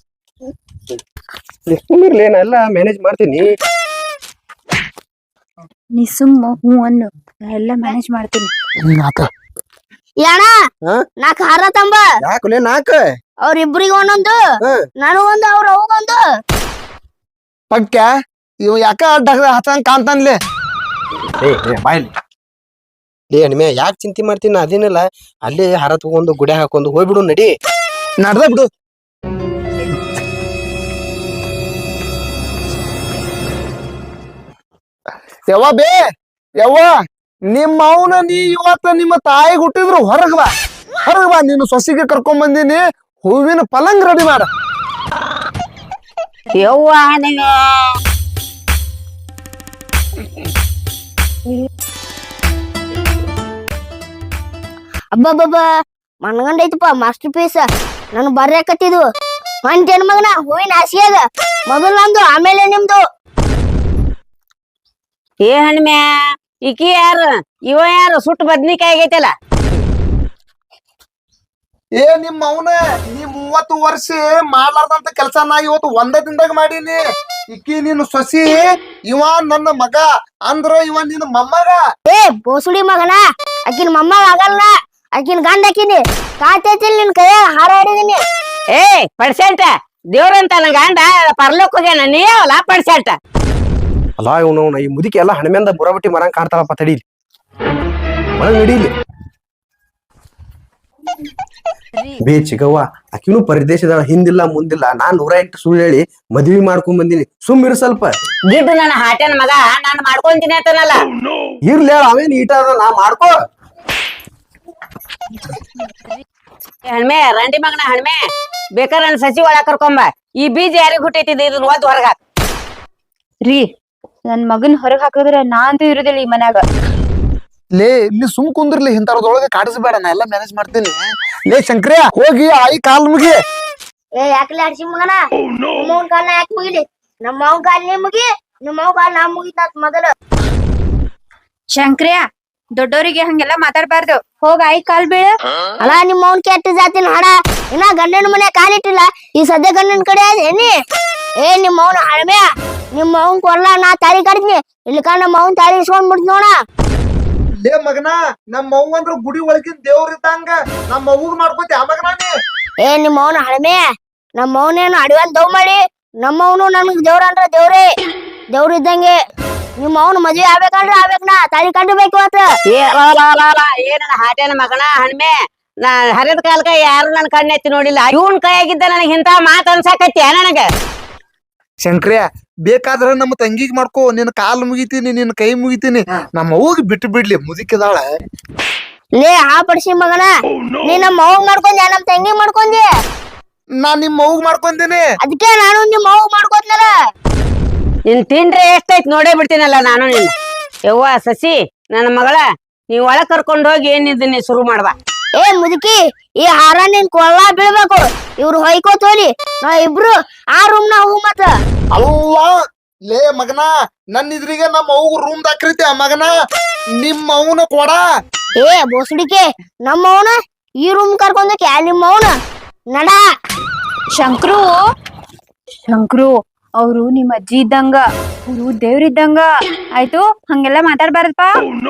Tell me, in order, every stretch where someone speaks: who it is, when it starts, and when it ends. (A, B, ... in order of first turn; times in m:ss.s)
0:01.7-0:03.5 A
0:06.0-0:08.5 B
0:08.8-0:09.3 C
0:10.2-0:10.5 D
0:11.2-0:12.1 D
0:12.2-0:13.0 A
0:13.4-0:14.4 D
0:15.0-0:16.2 D
0:17.7-0:18.1 C
0:18.6-0:20.4 C
0:21.4-0:22.1 A
0:23.3-0:27.5 A
0:28.2-0:28.7 C
0:35.5-0:36.0 C
0:36.6-0:36.9 C
0:37.5-0:40.5 C
0:41.0-0:44.5 C
0:46.5-0:47.9 E
0:55.2-0:55.6 D
0:56.2-0:59.0 D
0:59.6-1:03.0 D
1:05.5-1:06.0 E
1:06.6-1:09.3 E
1:12.0-1:17.0 C
1:17.5-1:21.8 C
1:22.1-1:28.2 D
1:28.7-1:33.2 E
1:34.2-1:37.0 A
1:38.4-1:38.9 A
1:42.2-1:48.1 A
1:48.5-1:51.0 E
1:51.6-1:53.3 A
1:56.9-1:58.2 E
1:58.8-2:02.2 E
2:04.3-2:06.6 B
2:07.8-2:11.0 C
2:11.5-2:13.4 C
2:14.2-2:15.2 D
2:15.8-2:20.1 D
2:21.8-2:22.2 B
2:22.8-2:25.4 B
2:25.8-2:30.7 D
2:31.4-2:36.5 D
2:37.6-2:42.3 C
2:42.8-2:43.8 D
2:44.4-2:47.9 D
2:48.5-2:49.2 D
2:49.8-2:52.5 D
2:52.7-2:55.3 E
2:55.8-3:00.7 E
3:01.8-3:08.0 C
3:09.2-3:10.3 D
3:10.8-3:12.9 D
3:13.8-3:15.0 C
3:15.2-3:16.9 D
3:18.1-3:20.3 E
3:20.9-3:24.9 E
3:25.4-3:31.5 D
3:32.0-3:32.5 C
3:33.1-3:36.3 C
3:37.0-3:38.0 C
3:38.6-3:42.4 D
3:42.9-3:43.2 D
3:44.2-3:44.8 B
3:45.9-3:51.6 B